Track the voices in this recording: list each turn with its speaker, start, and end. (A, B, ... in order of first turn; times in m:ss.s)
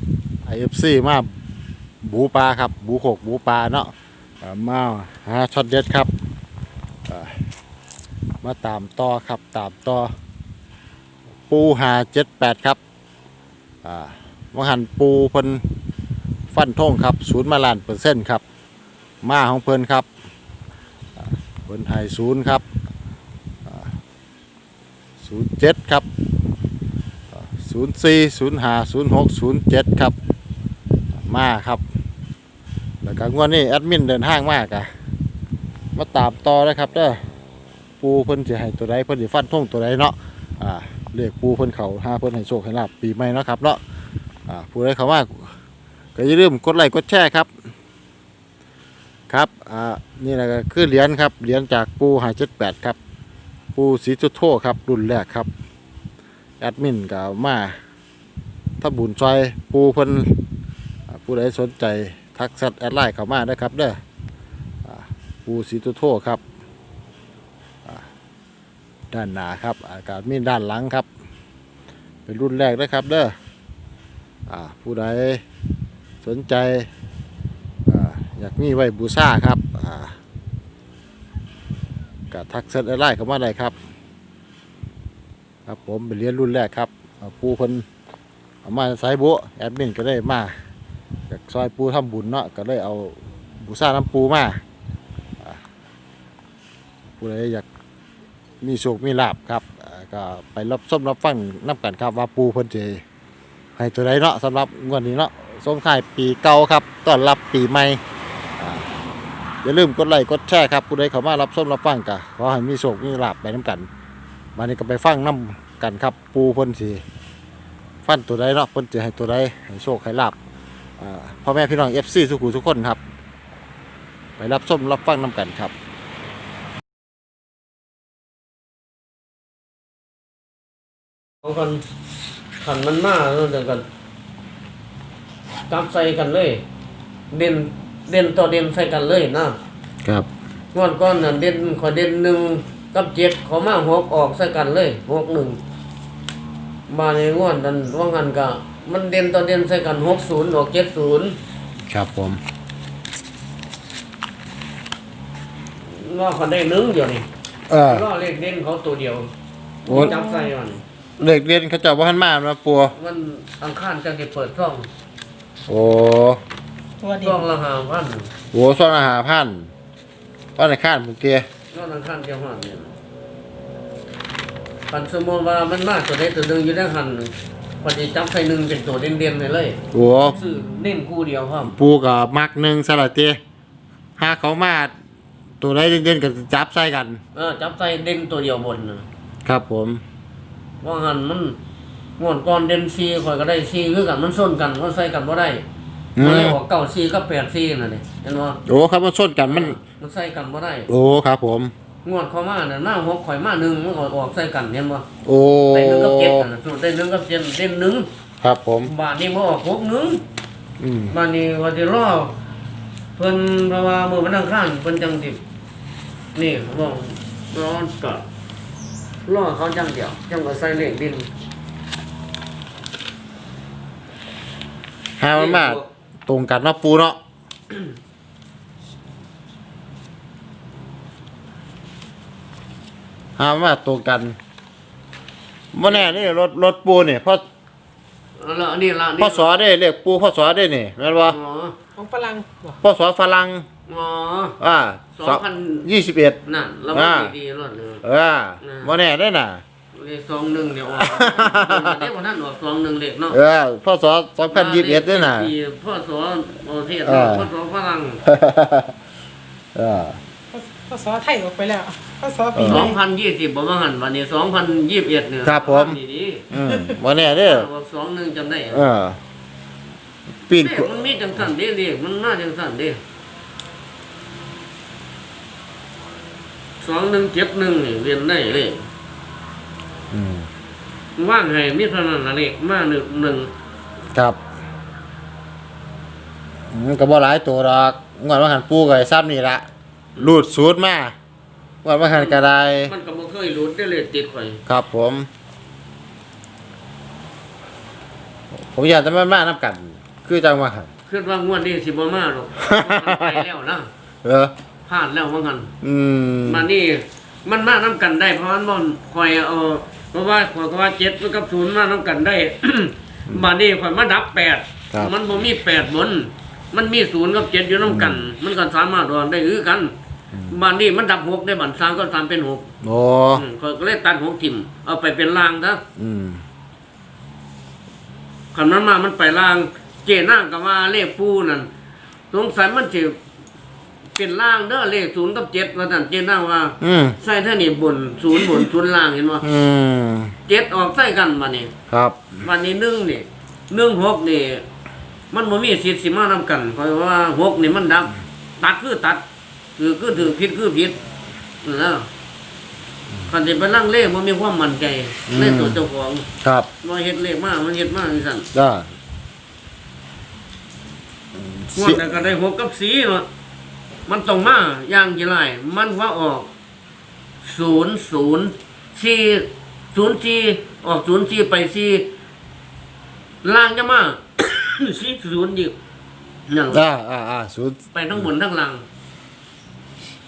0:00.4-0:01.4 A
0:02.0-0:06.1 A
0:07.0-0:07.4 A
0:08.4-0:10.1 A
0:11.5-0:12.8 A
0:13.8-0:15.6 A
0:16.5-0:18.4 A
0:19.2-0:20.1 A
0:21.2-0:22.6 A
0:23.6-0:23.9 A
0:25.2-0:26.1 A
0:27.3-0:30.2 A
0:31.1-0:31.8 A
0:33.0-0:34.9 A
0:35.9-0:37.2 A
0:38.0-0:43.8 A
0:44.5-0:45.5 A
0:46.2-0:47.5 A
0:49.3-0:53.0 A
0:53.7-0:55.5 A
0:56.6-0:57.8 A
0:58.8-1:00.4 A
1:01.1-1:04.0 A
1:04.8-1:06.4 A
1:09.1-1:11.1 A
1:12.2-1:13.4 A
1:14.5-1:15.4 A
1:16.2-1:16.9 A
1:17.9-1:20.2 A
1:22.3-1:23.8 A
1:25.6-1:27.8 A
1:28.6-1:30.6 A
1:31.3-1:34.6 A
1:35.4-1:35.6 A
1:37.2-1:37.6 A
1:38.6-1:43.0 A
1:43.8-1:48.0 A
1:48.6-1:48.9 A
1:49.6-1:53.9 A
1:54.6-1:57.0 A
1:58.0-2:00.4 A
2:01.0-2:03.0 A
2:04.4-2:05.7 A
2:11.4-2:11.8 B
2:12.6-2:13.8 B
2:15.7-2:16.6 B
2:17.3-2:19.6 B
2:20.7-2:25.6 B
2:26.9-2:31.4 B
2:31.9-2:32.4 A
2:35.8-2:37.2 B
2:37.7-2:38.0 A
2:37.8-2:39.3 B
2:39.8-2:40.5 C
2:39.9-2:40.1 A
2:39.9-2:40.8 B
2:41.2-2:42.9 A
2:43.0-2:44.9 B
2:45.7-2:46.4 A
2:47.0-2:47.4 C
2:47.2-2:48.3 B
2:48.5-2:49.7 A
2:50.6-2:51.4 A
2:51.7-2:52.9 B
2:54.9-2:57.3 B
2:57.8-2:59.8 B
2:59.9-3:00.4 A
3:00.3-3:01.7 B
3:01.6-3:03.4 A
3:04.2-3:04.9 A
3:05.6-3:07.2 A
3:07.3-3:09.0 B
3:09.4-3:10.0 A
3:10.8-3:11.6 B
3:12.2-3:15.6 B
3:16.2-3:16.6 A
3:16.2-3:18.6 B
3:18.6-3:19.8 A
3:19.5-3:20.9 B
3:20.9-3:21.7 A
3:22.0-3:25.0 B
3:25.2-3:26.4 A
3:25.7-3:28.1 B
3:28.4-3:28.9 A
3:28.8-3:30.2 B
3:30.8-3:31.1 A
3:31.1-3:32.3 B
3:33.2-3:35.4 B
3:36.3-3:38.2 B
3:39.3-3:41.3 B
3:45.2-3:47.2 A
3:45.3-3:45.9 B
3:53.4-3:54.4 A
3:55.7-3:57.4 A
3:58.4-3:59.5 B
3:59.2-4:01.4 A
4:01.3-4:01.8 B
4:02.0-4:02.8 C
4:02.8-4:03.6 A
4:03.9-4:04.6 B
4:04.6-4:06.4 A
4:05.2-4:05.9 B
4:06.4-4:08.0 B
4:06.9-4:07.3 A
4:08.0-4:09.6 A
4:08.6-4:08.9 B
4:09.9-4:13.4 B
4:11.0-4:12.1 A
4:13.3-4:15.5 A
4:14.5-4:18.2 B
4:17.0-4:17.5 A
4:18.2-4:18.9 A
4:19.7-4:20.2 A
4:20.5-4:23.0 C
4:22.5-4:22.8 A
4:22.6-4:26.5 B
4:25.4-4:26.0 A
4:26.5-4:27.7 A
4:27.4-4:28.8 B
4:28.7-4:29.2 A
4:30.5-4:30.9 A
4:30.6-4:33.0 B
4:36.8-4:38.8 B
4:40.1-4:40.5 A
4:41.2-4:43.5 B
4:44.1-4:44.4 A
4:46.7-4:49.6 A
4:50.2-4:51.2 A
4:51.8-4:52.9 A
4:52.1-4:54.6 B
4:54.6-4:55.3 A
4:58.6-5:00.9 A
5:01.1-5:03.9 B
5:02.6-5:03.4 A
5:04.2-5:04.5 A
5:04.9-5:05.7 B
5:05.8-5:06.7 A
5:06.4-5:19.9 B
5:17.8-5:18.3 A
5:20.5-5:22.7 B
5:22.8-5:23.4 A
5:23.3-5:25.8 B
5:26.0-5:26.4 A
5:28.5-5:31.7 B
5:32.3-5:33.2 B
5:34.2-5:39.4 B
5:36.8-5:37.2 A
5:39.4-5:40.3 A
5:40.5-5:41.7 B
5:41.9-5:42.4 A
5:42.4-5:44.6 B
5:45.3-5:49.2 B
5:49.8-5:51.0 B
5:51.6-5:52.1 B
5:53.3-5:56.3 B
5:55.3-5:55.8 A
5:56.4-5:56.7 A
5:56.8-5:58.5 B
5:58.5-5:58.9 A
6:01.4-6:02.0 A
6:01.8-6:03.2 B
6:04.1-6:06.5 B
6:07.4-6:12.1 B
6:13.4-6:15.7 B
6:16.5-6:16.8 B
6:16.7-6:18.3 A
6:17.9-6:18.8 B